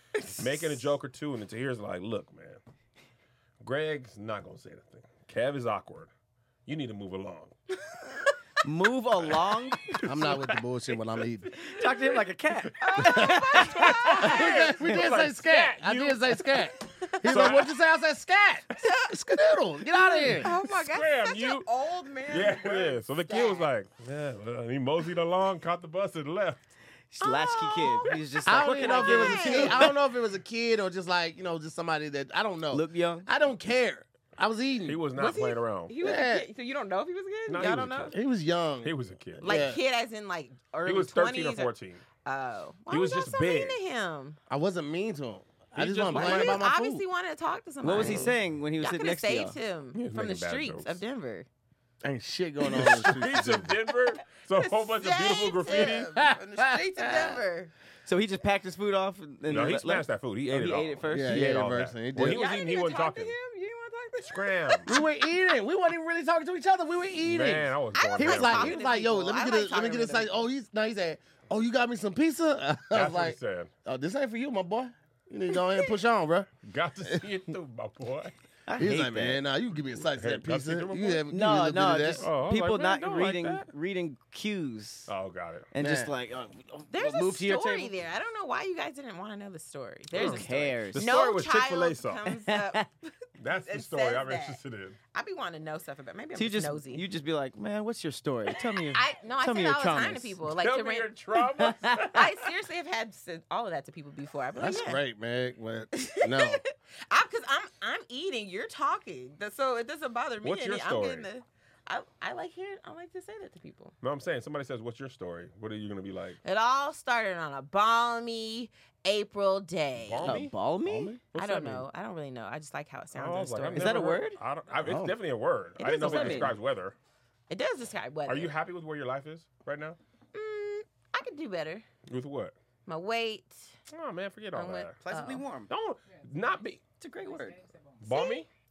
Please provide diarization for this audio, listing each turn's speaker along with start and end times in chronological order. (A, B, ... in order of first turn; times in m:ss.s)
0:00.4-0:02.6 A
0:03.6-0:06.1 A
0:06.7-0:07.6 A
0:08.6-0:10.3 B
0:09.9-0:10.4 A
0:10.0-0:11.6 C
0:11.5-0:12.2 A
0:11.6-0:14.1 B
0:12.8-0:14.7 D
0:12.8-0:16.4 A
0:14.2-0:20.5 C
0:17.0-0:17.5 D
0:17.2-0:17.8 A
0:18.8-0:19.1 D
0:19.9-0:23.7 D
0:20.4-0:21.7 A
0:22.3-0:26.6 A
0:27.1-0:29.9 B
0:27.2-0:29.9 D
0:28.4-0:35.0 C
0:32.7-0:33.3 B
0:34.8-0:35.9 A
0:35.2-0:38.2 D
0:36.0-0:36.5 C
0:37.5-0:38.2 A
0:38.1-0:39.8 C
0:38.8-0:39.6 A
0:39.4-0:41.7 D
0:40.8-0:42.0 A
0:42.2-0:44.4 D
0:42.9-0:43.8 A
0:44.5-0:47.0 C
0:45.8-0:46.6 A
0:46.1-0:51.5 D
0:47.8-0:49.6 B
0:48.0-0:48.3 A
0:49.9-0:51.0 A
0:52.0-0:53.7 C
0:52.6-0:56.1 A
0:54.6-0:57.7 D
0:55.7-0:57.4 C
0:58.1-1:01.6 B
0:59.5-1:03.4 A
1:01.1-1:02.4 C
1:02.2-1:05.0 D
1:04.2-1:04.9 A
1:04.9-1:16.6 C
1:07.2-1:08.8 A
1:07.9-1:10.5 D
1:12.9-1:13.7 A
1:16.6-1:18.3 A
1:18.7-1:19.4 B
1:18.8-1:22.3 C
1:20.0-1:21.2 A
1:21.3-1:25.1 B
1:22.2-1:23.7 A
1:25.1-1:25.7 A
1:25.7-1:27.9 B
1:25.8-1:26.1 C
1:26.9-1:34.6 D
1:30.1-1:32.2 A
1:30.1-1:31.1 B
1:32.4-1:32.8 B
1:33.4-1:35.0 A
1:35.1-1:37.0 D
1:36.4-1:40.4 B
1:38.9-1:41.1 D
1:40.6-1:42.3 A
1:41.5-1:42.2 B
1:42.1-1:45.0 D
1:44.6-1:46.6 C
1:45.9-1:53.9 D
1:50.4-1:51.3 A
1:54.0-1:56.4 A
1:56.4-2:00.4 D
2:00.0-2:00.6 A
2:00.2-2:01.2 B
2:00.8-2:01.2 C
2:01.3-2:04.2 D
2:01.4-2:01.8 A
2:03.2-2:07.0 A
2:03.7-2:04.4 B
2:04.8-2:05.1 C
2:05.8-2:06.5 D
2:05.8-2:06.5 B
2:07.5-2:08.5 D
2:08.3-2:10.0 A
2:10.3-2:11.8 D
2:12.1-2:12.6 A
2:12.9-2:13.7 D
2:13.9-2:15.0 A
2:14.5-2:15.5 D
2:15.0-2:15.7 B
2:15.7-2:16.8 A
2:16.1-2:18.2 E
2:17.0-2:17.6 B
2:18.0-2:18.5 A
2:18.0-2:18.4 D